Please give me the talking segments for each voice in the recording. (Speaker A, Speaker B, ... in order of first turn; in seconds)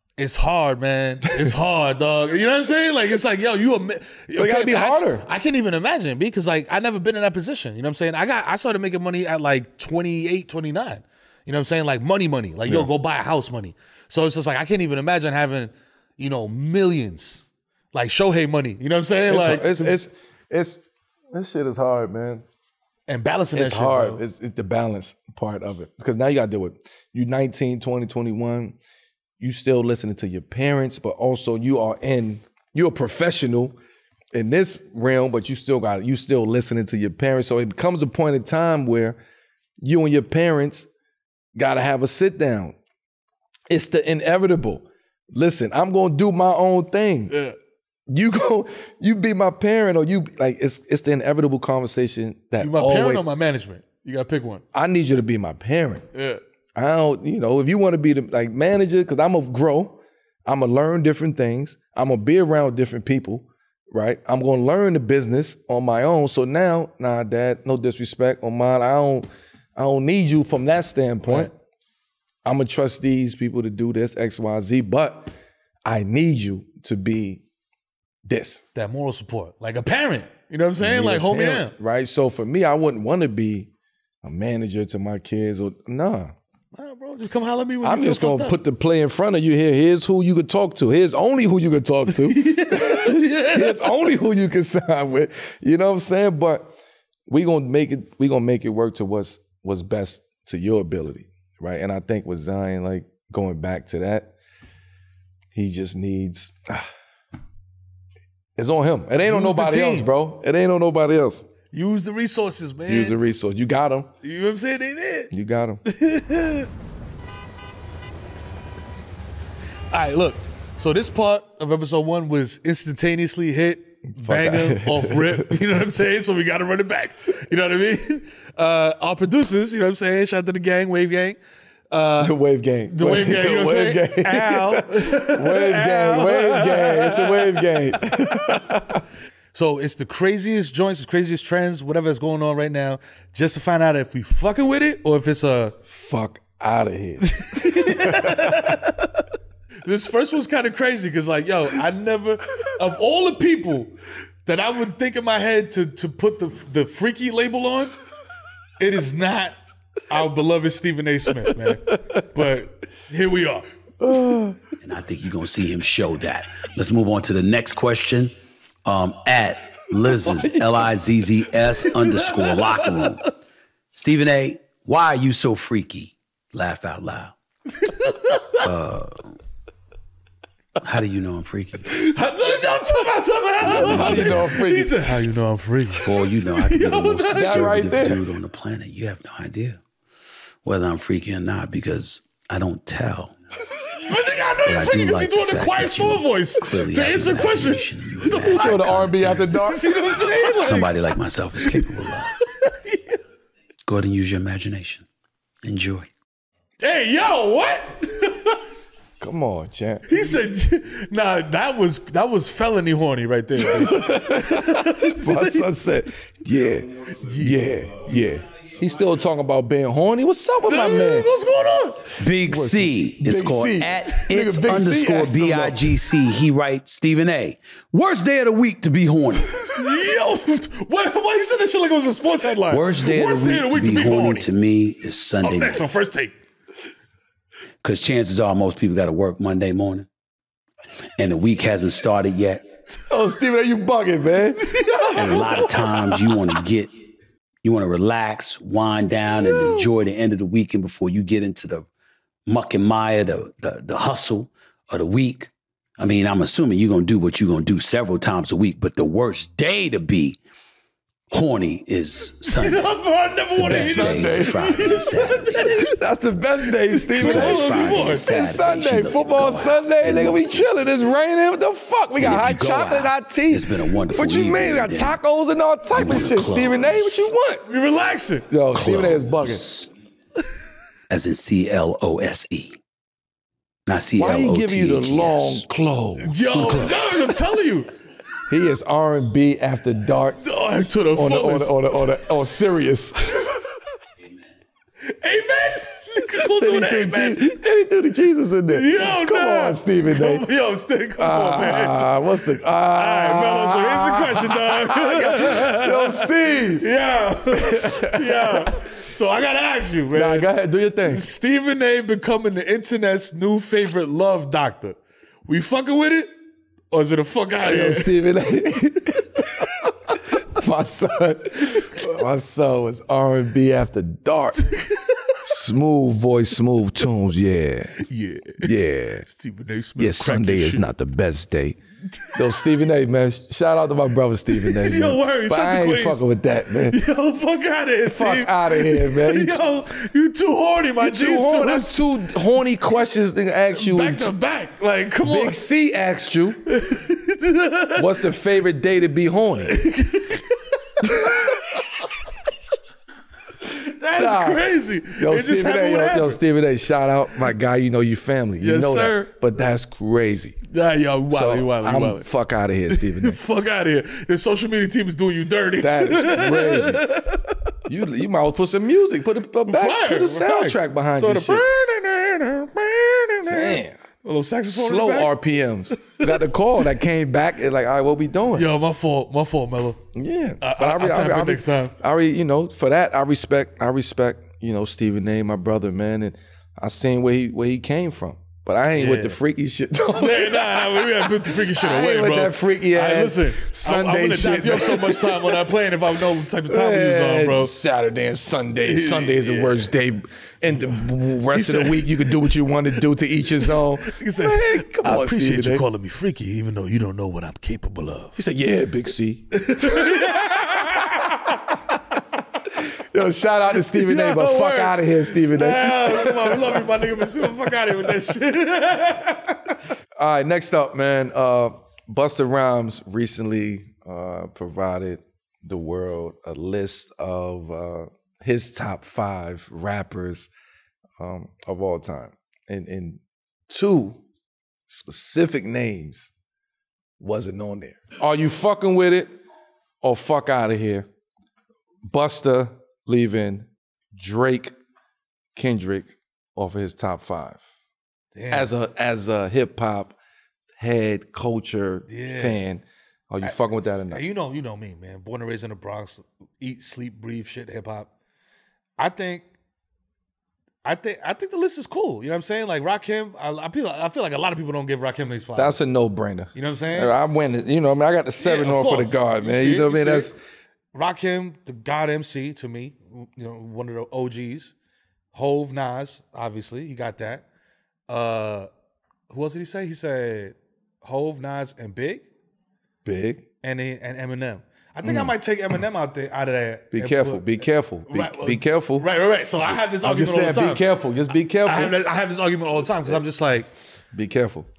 Speaker A: 0.2-20.0, 23.1-24.2, 47.3-47.6, 52.6-54.6, 56.1-56.4, 71.2-71.5, 78.8-81.8, 86.7-88.6, 92.1-94.0, 109.2-110.1, 111.7-113.2, 114.2-115.3, 115.8-116.7, 119.9-131.4, 131.9-138.7, 139.5-145.8, 147.2-149.3, 149.8-153.9, 154.5-157.9, 158.8-163.7, 171.8-173.2, 177.8-178.7, 181.9-187.9, 193.8-198.7, 199.7-203.2, 206.8-208.6, 210.1-215.7, 217.2-217.9, 220.6-222.1, 229.8-234.5, 235.4-236.3, 244.6-246.5, 249.5-249.8, 262.5-265.9, 267.1-268.3, 277.7-278.5, 286.2-287.9, 290.4-292.0, 295.0-297.5, 298.7-302.2, 302.9-310.5, 311.0-316.3, 316.9-318.2, 324.6-325.6, 328.0-330.9, 332.1-332.7, 334.5-336.2, 336.8-342.1, 343.7-345.6, 346.7-348.3, 349.6-352.5, 353.6-356.4, 358.6-359.3, 360.7-362.3, 362.9-367.7, 369.7-375.3, 375.9-377.0, 378.5-380.0, 380.6-381.9, 388.9-389.4, 390.1-397.8, 398.9-400.0, 400.7-402.6, 403.5-408.4, 409.5-411.6, 413.8-419.8, 448.4-448.7, 452.1-452.6, 454.1-458.1, 459.0-459.5, 460.9-465.8, 466.6-467.1, 468.4-470.3, 470.9-474.7, 475.3-477.4, 478.1-478.7, 479.3-482.3, 483.6-490.9, 491.6-493.7
Speaker B: 4.4-5.2, 19.3-22.4, 23.5-28.8, 29.4-33.8, 34.3-39.2, 39.8-40.9, 41.5-42.8, 43.7-47.4, 48.1-53.2, 54.7-56.1, 56.8-71.5, 72.5-75.3, 75.9-77.4, 78.3-78.6, 80.8-83.7, 84.2-86.3, 87.8-96.8, 97.3-104.3, 105.5-106.9, 108.6-111.5, 112.9-114.1, 115.3-115.8, 124.1-125.6, 132.2-139.1, 145.9-148.8, 164.0-164.6, 183.7-185.0, 187.3-188.2, 198.3-200.3, 209.2-210.4, 213.8-221.3, 222.5-226.0, 232.7-233.8, 243.0-244.7, 263.6-264.9, 265.8-277.7, 278.5-279.6, 284.2-287.0, 288.5-290.4, 291.1-293.5, 296.3-300.5, 301.2-306.9, 307.5-308.9, 310.1-311.3, 317.6-319.7, 320.4-324.7, 325.4-328.0, 328.6-329.3, 330.0-331.8, 332.3-337.0, 338.1-339.6, 341.0-344.4, 345.2-346.6, 347.9-349.9, 351.0-351.5, 354.1-360.6, 361.3-363.4, 365.8-367.1, 367.9-371.6, 373.4-374.0, 374.7-378.7, 380.1-395.7, 396.7-405.8, 408.4-411.5, 412.8-417.9, 420.2-430.5, 431.2-434.2, 434.9-436.3, 437.2-439.4, 440.0-441.1, 442.1-444.8, 445.6-447.7, 448.5-450.2, 450.8-454.2, 465.6-470.4, 483.0-483.5, 485.0-485.3, 486.9-489.1, 489.7-492.0, 494.1-494.7
Speaker C: 164.8-173.3, 173.9-177.3, 178.6-179.3, 180.8-182.0, 183.6-184.6, 186.0-189.8, 190.6-193.3, 194.7-202.4, 203.9-205.1, 205.6-206.1, 222.2-229.8, 233.7-235.9, 237.8-240.1, 241.2-242.6, 245.1-246.9, 247.6-251.9, 252.5-260.4, 261.3-262.9, 263.6-265.7, 267.1-271.1, 272.2-275.2, 275.9-277.3, 278.7-279.9, 281.1-282.8, 283.9-285.7, 286.5-287.3